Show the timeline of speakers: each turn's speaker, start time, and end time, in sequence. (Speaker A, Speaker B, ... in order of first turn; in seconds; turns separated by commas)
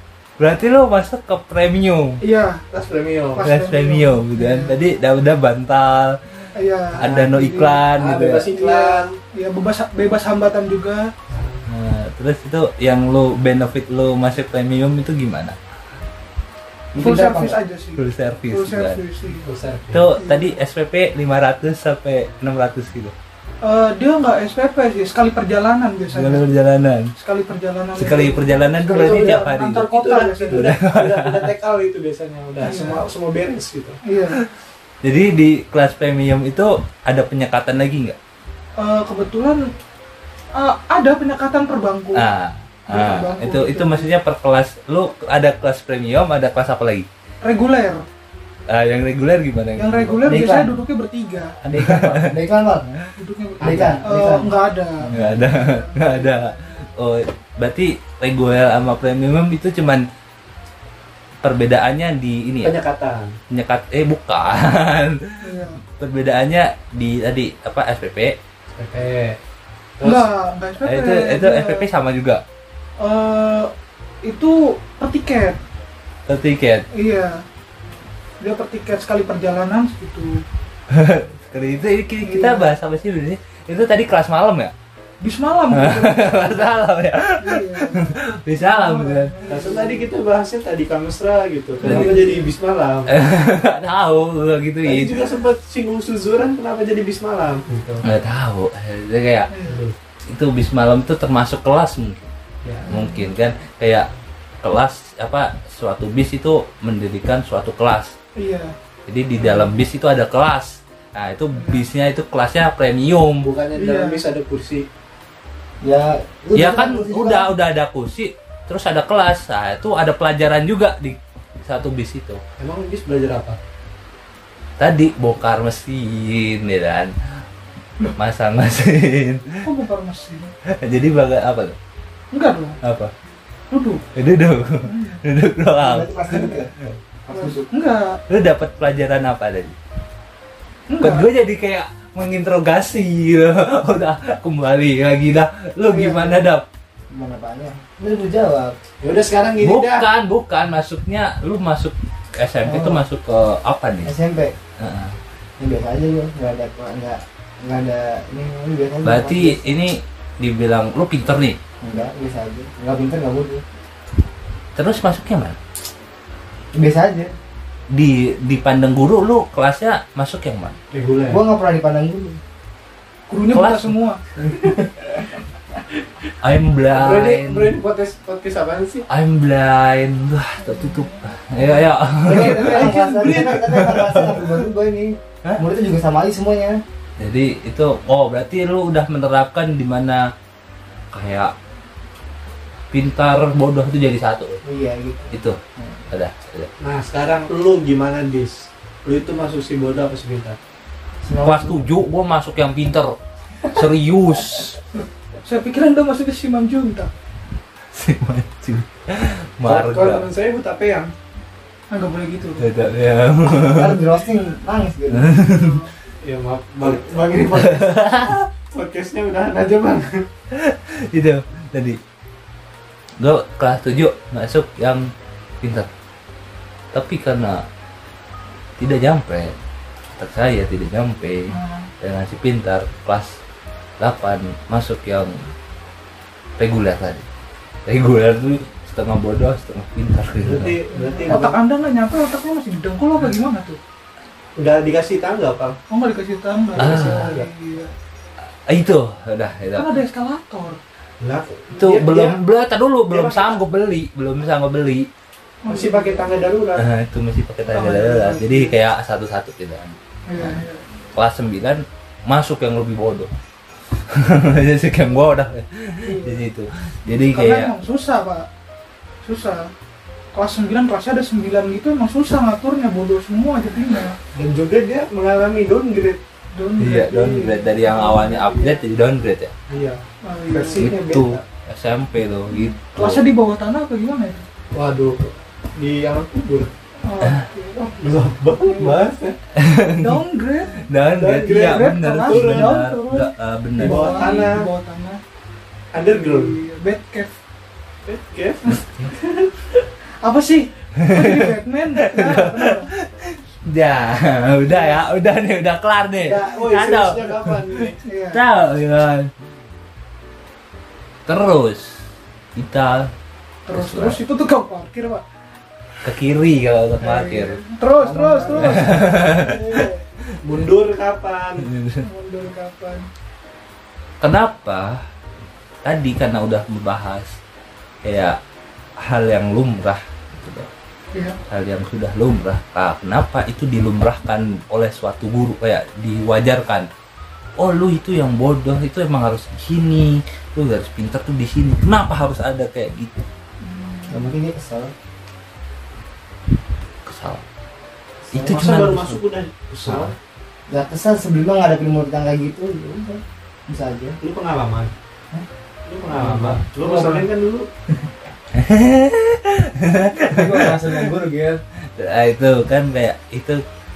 Speaker A: 0.4-2.2, Speaker B: 2.2-2.7, Speaker C: 2.7-3.5, Speaker B: 3.4-4.8, Speaker A: 3.4-6.2, Speaker B: 6.5-7.8, Speaker A: 7.0-8.5, Speaker C: 7.9-9.1, Speaker B: 8.5-11.1, Speaker C: 11.3-11.6, Speaker A: 11.7-15.6, Speaker D: 16.9-17.6, Speaker B: 17.0-19.5, Speaker A: 18.0-19.0, Speaker C: 19.3-20.1, Speaker A: 19.9-23.1, Speaker B: 20.2-20.5, Speaker B: 23.6-26.4, Speaker A: 26.1-27.1, Speaker B: 27.2-30.7, Speaker A: 28.0-29.9, Speaker C: 28.9-34.0, Speaker A: 30.5-31.5, Speaker B: 32.6-33.0, Speaker B: 34.0-34.4, Speaker A: 35.0-38.2, Speaker B: 38.8-39.7, Speaker B: 40.5-42.3, Speaker A: 42.1-47.1, Speaker B: 42.9-44.1, Speaker B: 47.4-48.0, Speaker A: 48.7-50.2, Speaker B: 49.8-51.5, Speaker D: 50.2-50.7, Speaker A: 51.6-52.3, Speaker D: 51.6-53.0, Speaker B: 53.2-56.6, Speaker C: 53.6-54.0, Speaker D: 53.6-54.5, Speaker D: 55.0-55.5, Speaker A: 55.1-60.1, Speaker A: 61.4-62.8, Speaker C: 62.6-63.4, Speaker A: 63.5-68.4, Speaker B: 65.4-65.8, Speaker C: 68.8-69.4, Speaker C: 70.0-70.3, Speaker B: 70.0-71.9, Speaker A: 70.8-72.4, Speaker B: 73.0-73.7, Speaker B: 74.2-75.6, Speaker A: 76.3-76.9, Speaker B: 76.9-77.4, Speaker B: 78.4-80.4, Speaker A: 80.9-84.7, Speaker B: 82.2-82.7, Speaker B: 85.2-86.8, Speaker A: 85.7-89.3, Speaker B: 87.4-90.1, Speaker C: 89.5-93.1, Speaker B: 91.8-92.4, Speaker A: 91.8-92.2, Speaker A: 93.1-95.2, Speaker C: 94.8-98.0, Speaker A: 98.0-99.5, Speaker B: 99.5-99.8, Speaker C: 99.7-100.0, Speaker A: 100.3-102.3, Speaker C: 102.6-102.9, Speaker B: 102.9-103.3, Speaker A: 102.9-104.1, Speaker A: 104.6-108.1, Speaker B: 108.4-108.7, Speaker A: 109.1-113.5, Speaker B: 109.4-109.7, Speaker B: 111.5-111.8, Speaker C: 113.4-114.9, Speaker B: 113.8-114.2, Speaker D: 115.8-117.5, Speaker A: 116.5-122.4, Speaker C: 122.6-123.6, Speaker A: 124.8-127.1, Speaker A: 128.2-129.6, Speaker B: 129.6-130.5, Speaker A: 130.7-131.8, Speaker B: 132.3-132.8, Speaker A: 132.8-133.1, Speaker B: 133.7-134.0, Speaker A: 134.2-136.9, Speaker B: 134.8-135.2, Speaker D: 135.8-136.7, Speaker B: 137.3-138.2, Speaker C: 137.3-137.6, Speaker A: 138.3-139.8, Speaker B: 140.9-141.2, Speaker A: 141.0-146.7, Speaker B: 145.9-146.3, Speaker D: 147.1-148.8, Speaker C: 149.0-150.1, Speaker A: 149.6-154.1, Speaker D: 152.7-153.0, Speaker D: 154.0-154.5, Speaker A: 154.8-155.2, Speaker D: 155.6-159.7, Speaker A: 159.1-161.6, Speaker D: 161.8-163.6, Speaker A: 164.8-165.6, Speaker D: 166.7-167.3, Speaker A: 167.9-170.8, Speaker C: 170.9-171.4, Speaker D: 171.3-172.4, Speaker B: 173.3-174.2, Speaker A: 173.5-173.9, Speaker D: 174.4-175.2, Speaker A: 176.4-177.8, Speaker C: 176.9-179.1, Speaker A: 179.1-184.6, Speaker B: 180.6-183.2, Speaker D: 182.2-186.8, Speaker A: 187.2-190.3, Speaker A: 191.1-191.5, Speaker A: 192.9-194.6, Speaker D: 194.7-195.9, Speaker A: 195.3-196.7, Speaker C: 196.8-200.6, Speaker D: 201.2-201.9, Speaker A: 201.4-204.8, Speaker B: 205.0-207.1, Speaker A: 207.9-210.3, Speaker C: 209.7-211.1, Speaker B: 211.9-212.7, Speaker A: 212.6-214.0, Speaker D: 213.5-215.3, Speaker A: 215.1-215.8, Speaker B: 215.4-215.9, Speaker C: 216.2-220.2, Speaker A: 217.4-218.5, Speaker A: 220.5-222.0, Speaker A: 223.2-225.1, Speaker A: 225.6-225.9, Speaker A: 226.9-227.6, Speaker A: 228.8-229.6, Speaker A: 230.2-233.4, Speaker B: 231.5-231.9, Speaker A: 234.0-235.4, Speaker A: 236.6-237.2, Speaker A: 237.9-240.8, Speaker C: 240.4-241.6, Speaker B: 240.9-243.8, Speaker C: 244.6-245.8, Speaker B: 245.9-247.9, Speaker C: 246.8-247.5, Speaker A: 246.8-247.3, Speaker A: 248.7-249.9, Speaker B: 249.8-250.8, Speaker C: 251.2-252.4, Speaker A: 251.8-255.1, Speaker C: 253.1-253.6, Speaker B: 255.7-256.3, Speaker C: 255.7-256.9, Speaker A: 256.8-260.6, Speaker B: 257.7-258.7, Speaker B: 260.3-260.8, Speaker A: 261.1-263.3, Speaker A: 264.1-267.7, Speaker B: 266.0-266.4, Speaker B: 267.3-268.5, Speaker B: 269.2-269.7, Speaker B: 270.4-274.2, Speaker C: 274.4-276.2, Speaker B: 276.6-278.9, Speaker A: 276.8-279.5, Speaker C: 279.7-281.4, Speaker B: 280.2-280.9, Speaker A: 280.8-283.3, Speaker B: 282.6-284.4, Speaker C: 284.7-286.7, Speaker B: 287.1-288.0, Speaker C: 288.0-289.4, Speaker B: 288.6-289.1, Speaker A: 289.6-290.2, Speaker B: 290.0-290.8, Speaker A: 290.8-294.5, Speaker C: 291.1-292.8, Speaker B: 291.5-295.2, Speaker C: 293.8-294.7, Speaker C: 295.9-296.6, Speaker B: 296.1-297.4, Speaker C: 298.1-299.8, Speaker B: 300.2-302.9, Speaker A: 301.0-309.3, Speaker B: 304.7-304.9, Speaker C: 306.2-308.0, Speaker B: 308.1-308.4, Speaker A: 311.3-312.0, Speaker A: 312.6-313.1, Speaker B: 313.7-315.2, Speaker A: 313.7-314.2, Speaker A: 316.0-317.6, Speaker B: 317.0-320.0, Speaker D: 318.0-319.3, Speaker A: 318.5-319.9, Speaker C: 320.4-321.7, Speaker A: 321.6-322.0, Speaker B: 322.0-323.1, Speaker A: 324.2-325.0, Speaker A: 325.9-327.3, Speaker A: 328.0-328.4, Speaker A: 329.0-330.7, Speaker A: 331.5-336.9, Speaker A: 337.6-343.2, Speaker B: 343.6-344.3, Speaker D: 344.1-344.9, Speaker A: 347.1-347.4, Speaker D: 348.3-348.6, Speaker A: 348.3-349.2, Speaker C: 348.4-350.1, Speaker A: 349.8-350.1, Speaker D: 350.7-354.2, Speaker C: 354.2-354.9, Speaker C: 355.9-357.7, Speaker A: 356.1-356.6, Speaker D: 356.8-357.3, Speaker A: 358.5-361.1, Speaker D: 360.3-361.6, Speaker A: 362.0-363.6